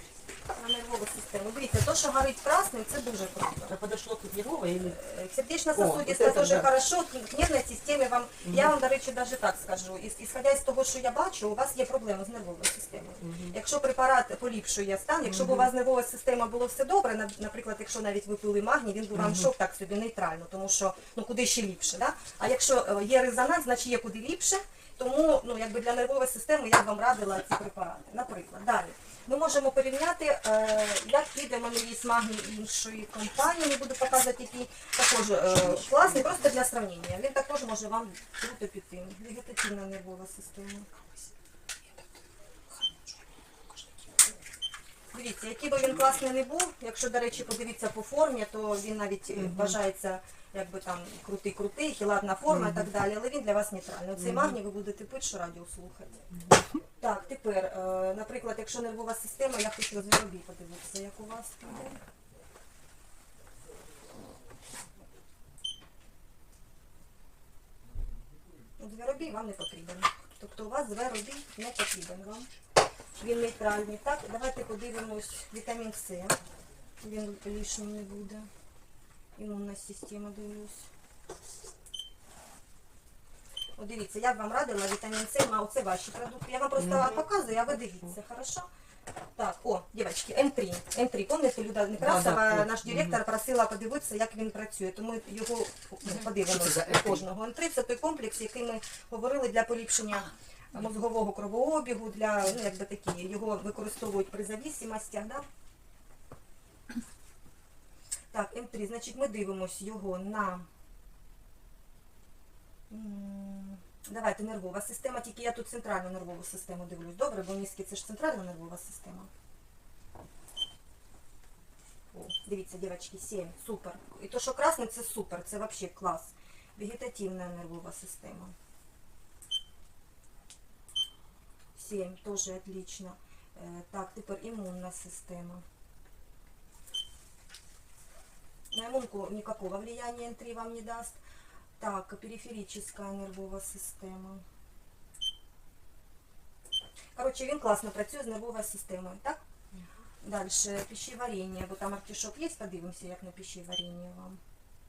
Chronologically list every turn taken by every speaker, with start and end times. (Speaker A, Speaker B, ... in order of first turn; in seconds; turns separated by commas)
Speaker A: 0.5-3.8, Speaker B: 3.7-5.0, Speaker A: 4.9-40.9, Speaker B: 5.7-6.7, Speaker B: 8.4-8.7, Speaker B: 13.2-13.6, Speaker B: 15.4-15.6, Speaker A: 45.1-56.2, Speaker B: 49.4-49.8, Speaker B: 54.2-54.5, Speaker A: 57.0-62.0, Speaker A: 68.8-72.5, Speaker A: 73.1-76.4, Speaker A: 77.0-78.5, Speaker A: 79.3-80.9, Speaker A: 83.8-88.7, Speaker B: 86.8-87.2, Speaker A: 89.3-105.5, Speaker B: 92.0-93.2, Speaker B: 96.2-97.2, Speaker A: 108.3-110.7, Speaker A: 112.9-119.3, Speaker A: 122.1-128.5, Speaker A: 131.7-135.6, Speaker A: 138.7-141.2, Speaker A: 141.8-144.4, Speaker A: 147.1-149.4, Speaker A: 150.2-154.4